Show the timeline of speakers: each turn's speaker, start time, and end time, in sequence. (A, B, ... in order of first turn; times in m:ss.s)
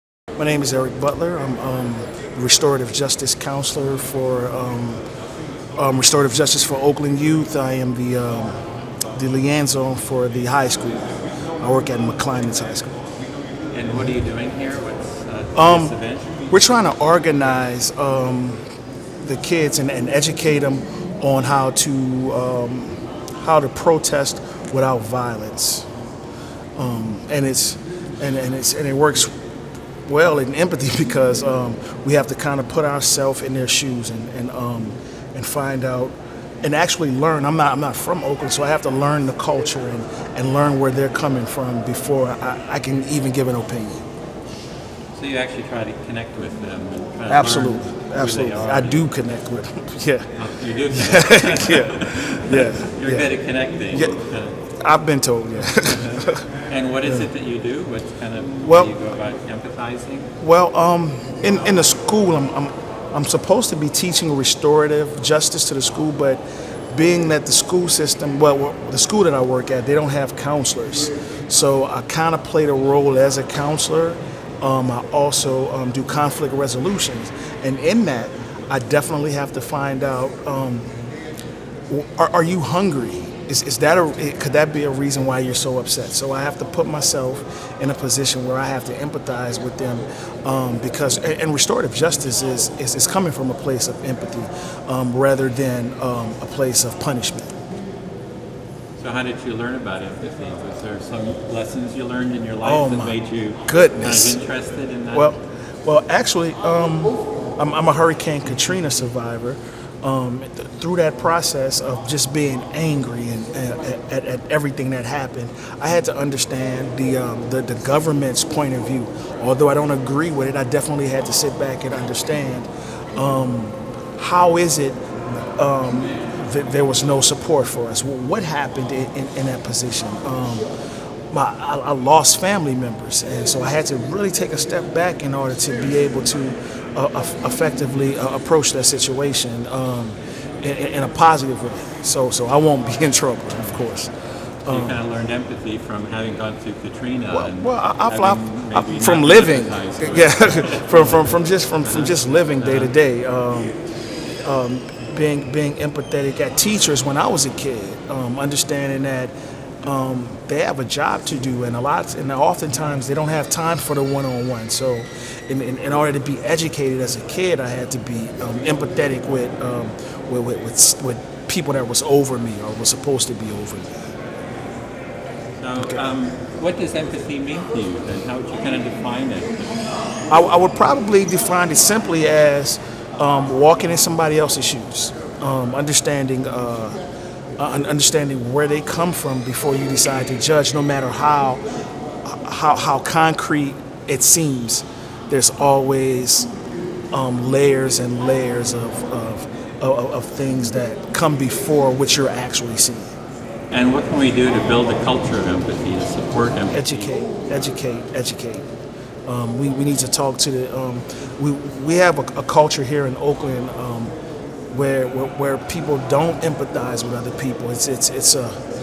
0:00.4-0:05.0 A
0:05.8-0:08.6 A
0:09.1-0:11.1 A
0:11.6-0:13.0 A
0:13.7-0:16.4 B
0:15.5-0:15.9 A
0:16.5-0:18.6 A
0:19.2-0:25.9 A
0:26.8-0:29.4 A
0:30.1-0:44.0 A
0:45.2-0:49.1 B
0:47.3-0:50.3 A
0:50.4-0:54.6 B
0:50.9-0:53.3 A
0:53.9-0:56.4 A
0:55.9-1:00.3 B
0:58.6-0:58.9 A
1:00.4-1:20.9 A
1:21.9-1:37.5 A
1:39.0-1:45.3 B
1:42.6-1:44.4 A
1:45.1-2:05.0 A
2:05.6-2:10.7 A
2:11.3-2:24.1 A
2:24.6-2:25.0 A
2:24.7-2:32.9 B
2:27.3-2:33.8 A
2:34.4-2:54.1 A
2:55.6-2:59.7 B
3:00.3-3:07.0 A
3:07.6-3:11.6 A
3:12.2-3:16.5 A
3:17.1-3:23.2 A
3:23.7-3:27.1 B
3:26.7-3:28.7 A
3:29.3-3:34.1 A
3:34.7-3:38.6 A